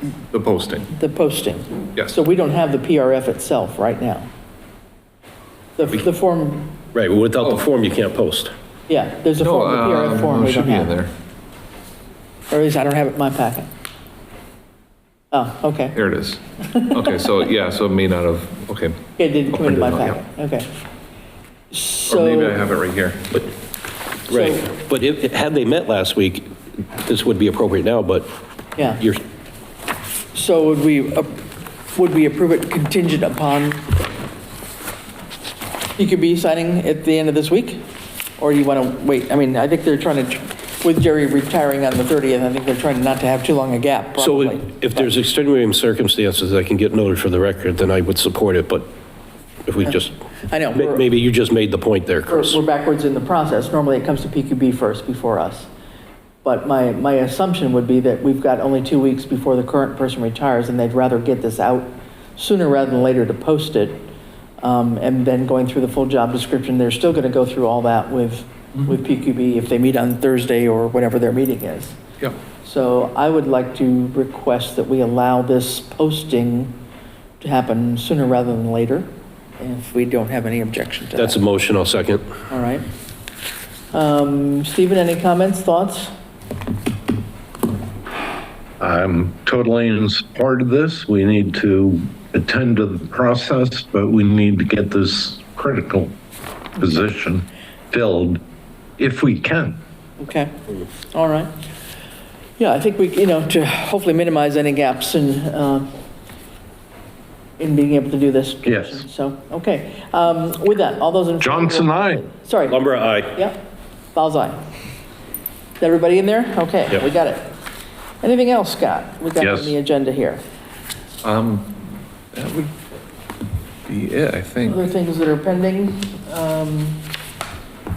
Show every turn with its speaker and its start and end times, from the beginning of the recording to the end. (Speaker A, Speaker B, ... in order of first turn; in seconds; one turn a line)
Speaker A: 0.3-0.9
Speaker B: 0.9-4.3
Speaker B: 5.8-6.7
Speaker C: 6.9-8.5
Speaker B: 8.9-10.9
Speaker A: 9.4-11.1
Speaker B: 12.5-13.7
Speaker B: 15.3-16.0
Speaker A: 15.9-20.2
Speaker B: 19.2-20.7
Speaker B: 21.7-22.6
Speaker A: 22.1-23.4
Speaker C: 24.3-28.3
Speaker B: 24.3-24.7
Speaker B: 28.8-29.0
Speaker B: 30.3-31.4
Speaker B: 31.9-34.0
Speaker B: 36.0-37.8
Speaker B: 38.4-45.1
Speaker C: 44.2-48.9
Speaker C: 49.7-50.1
Speaker B: 50.5-51.1
Speaker C: 50.7-52.6
Speaker B: 52.3-55.7
Speaker B: 56.4-64.1
Speaker B: 64.6-72.0
Speaker B: 72.6-76.8
Speaker B: 77.4-81.4
Speaker C: 81.2-82.2
Speaker B: 82.5-82.9
Speaker B: 83.9-86.1
Speaker D: 88.8-96.2
Speaker D: 96.8-98.4
Speaker D: 99.0-99.8
Speaker B: 100.2-100.5
Speaker B: 101.1-101.5
Speaker B: 102.6-105.9
Speaker B: 107.6-113.6
Speaker D: 108.7-109.0
Speaker D: 111.4-112.2
Speaker C: 112.7-113.4
Speaker B: 114.2-114.6
Speaker B: 115.8-117.5
Speaker B: 118.2-120.4
Speaker D: 119.4-119.7
Speaker A: 121.2-122.7
Speaker A: 123.9-124.8
Speaker B: 124.7-127.1